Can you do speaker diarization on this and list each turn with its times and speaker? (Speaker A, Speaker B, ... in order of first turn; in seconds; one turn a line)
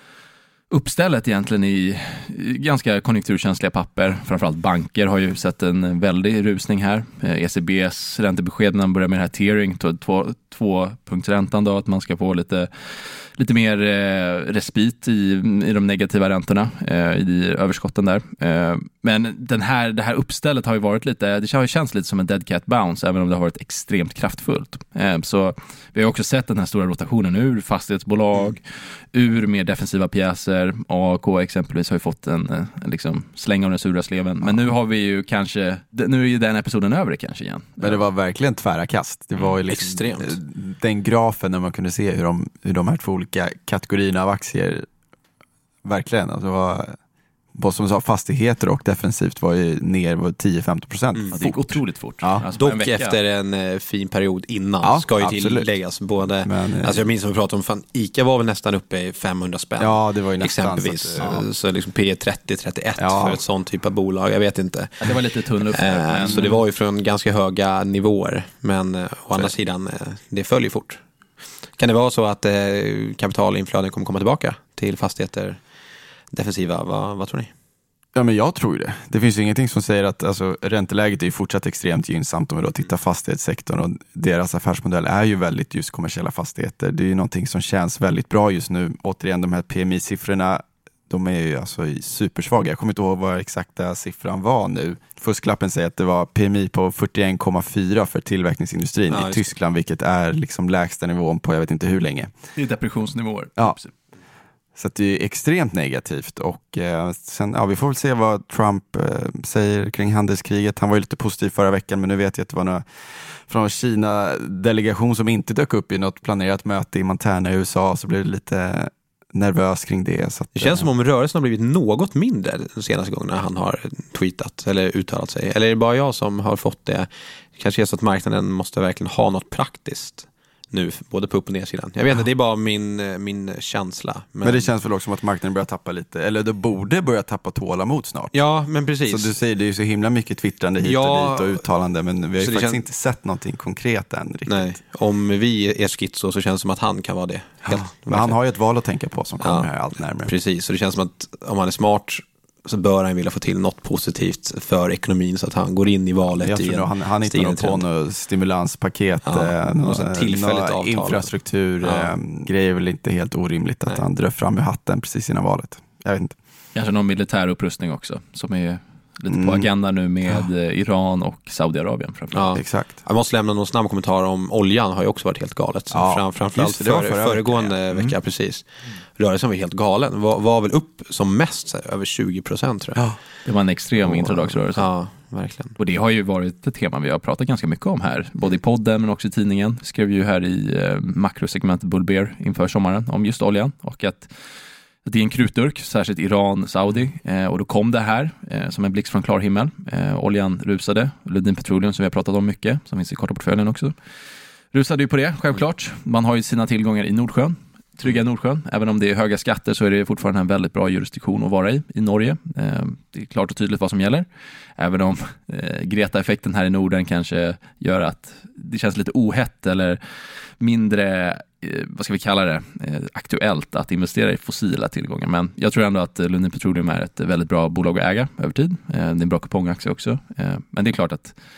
Speaker A: 0.7-38.0
Speaker B: 37.8-44.9
Speaker C: 39.7-40.4
Speaker B: 45.9-47.0
Speaker B: 47.5-52.5
Speaker A: 51.3-53.2
Speaker C: 52.5-65.1
Speaker B: 54.8-55.7
Speaker B: 56.4-57.0
Speaker B: 59.8-61.5
Speaker B: 63.0-63.4
Speaker A: 65.0-66.6
Speaker C: 65.7-71.0
Speaker B: 66.3-66.5
Speaker C: 71.8-75.6
Speaker C: 76.3-77.5
Speaker B: 78.2-102.3
Speaker C: 99.1-99.5
Speaker A: 102.6-103.9
Speaker B: 104.8-120.9
Speaker C: 120.5-134.7
Speaker B: 134.4-138.3
Speaker C: 138.3-139.3
Speaker B: 139.1-144.8
Speaker C: 140.8-141.6
Speaker C: 142.4-142.8
Speaker C: 144.5-148.4
Speaker B: 147.7-150.3
Speaker C: 149.4-149.7
Speaker C: 150.2-157.8
Speaker B: 156.3-166.4
Speaker C: 159.2-162.1
Speaker A: 166.8-172.6
Speaker B: 169.3-169.7
Speaker C: 172.3-183.0
Speaker B: 172.6-173.0
Speaker B: 175.9-177.8
Speaker A: 183.4-184.9
Speaker C: 184.7-185.8
Speaker A: 185.8-194.3
Speaker A: 195.1-203.9
Speaker A: 204.7-214.3
Speaker A: 214.8-220.0
Speaker A: 220.6-231.4